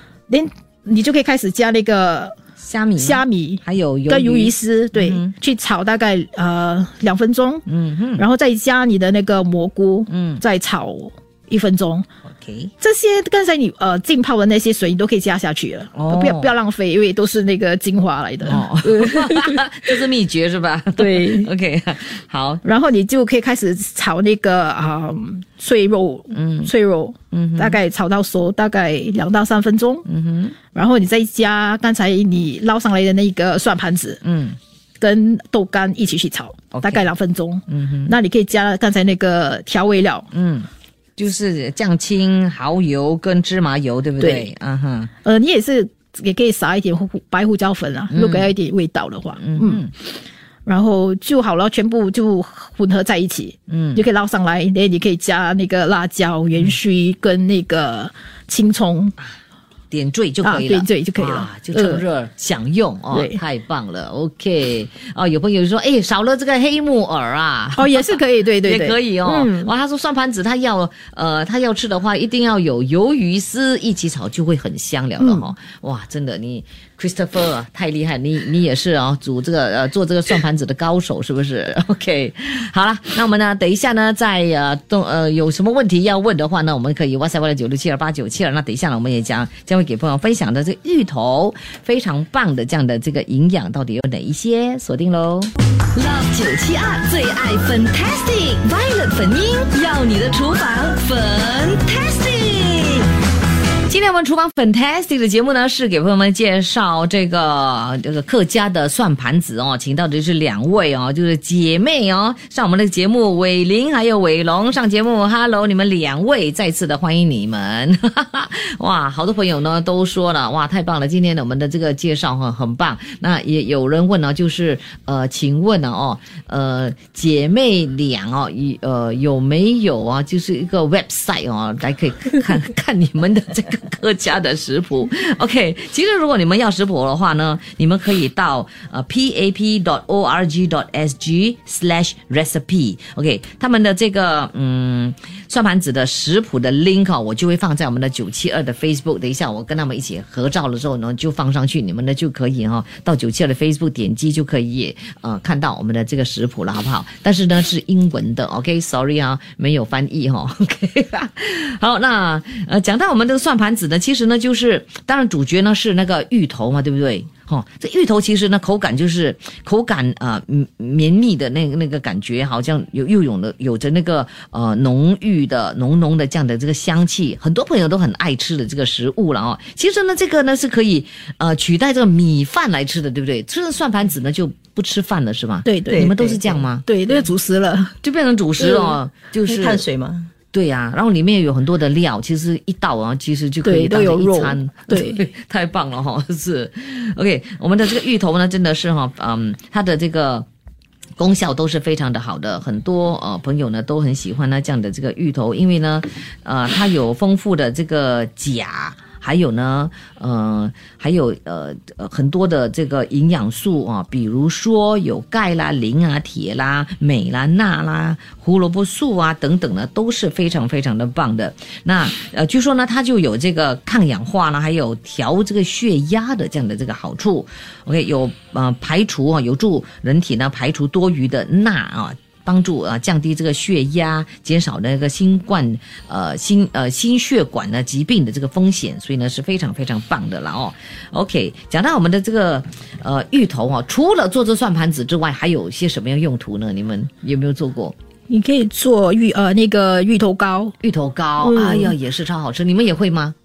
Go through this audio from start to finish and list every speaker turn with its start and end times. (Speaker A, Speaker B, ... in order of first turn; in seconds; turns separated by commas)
Speaker A: 0.3-2.3, Speaker B: 2.6-5.3, Speaker A: 3.0-7.6, Speaker B: 7.7-8.2, Speaker A: 8.2-12.1, Speaker B: 10.1-10.4, Speaker B: 12.4-12.7, Speaker A: 12.8-19.6, Speaker B: 15.9-16.5, Speaker B: 18.4-22.6, Speaker A: 20.9-21.5, Speaker A: 22.6-30.0, Speaker B: 26.3-26.7, Speaker B: 27.3-27.8, Speaker B: 30.1-30.6, Speaker A: 30.7-34.2, Speaker B: 34.2-34.6, Speaker A: 35.0-40.3, Speaker B: 36.7-37.0, Speaker B: 37.7-38.1, Speaker B: 40.3-45.1, Speaker A: 44.2-44.5, Speaker A: 45.2-49.9, Speaker B: 48.1-48.5, Speaker B: 49.4-49.9, Speaker A: 50.6-59.1, Speaker B: 53.7-54.0, Speaker B: 59.9-95.5, Speaker A: 60.4-62.0, Speaker A: 63.1-63.4, Speaker A: 67.7-69.7, Speaker A: 75.2-75.5, Speaker C: 95.9-103.1, Speaker B: 103.9-186.9, Speaker A: 185.6-186.1, Speaker D: 185.9-186.6, Speaker A: 186.8-187.9, Speaker B: 188.0-189.8, Speaker D: 188.6-190.3, Speaker B: 190.5-200.4, Speaker A: 193.6-195.2, Speaker B: 201.2-247.9, Speaker A: 248.3-250.7, Speaker B: 250.8-253.3, Speaker A: 251.4-251.9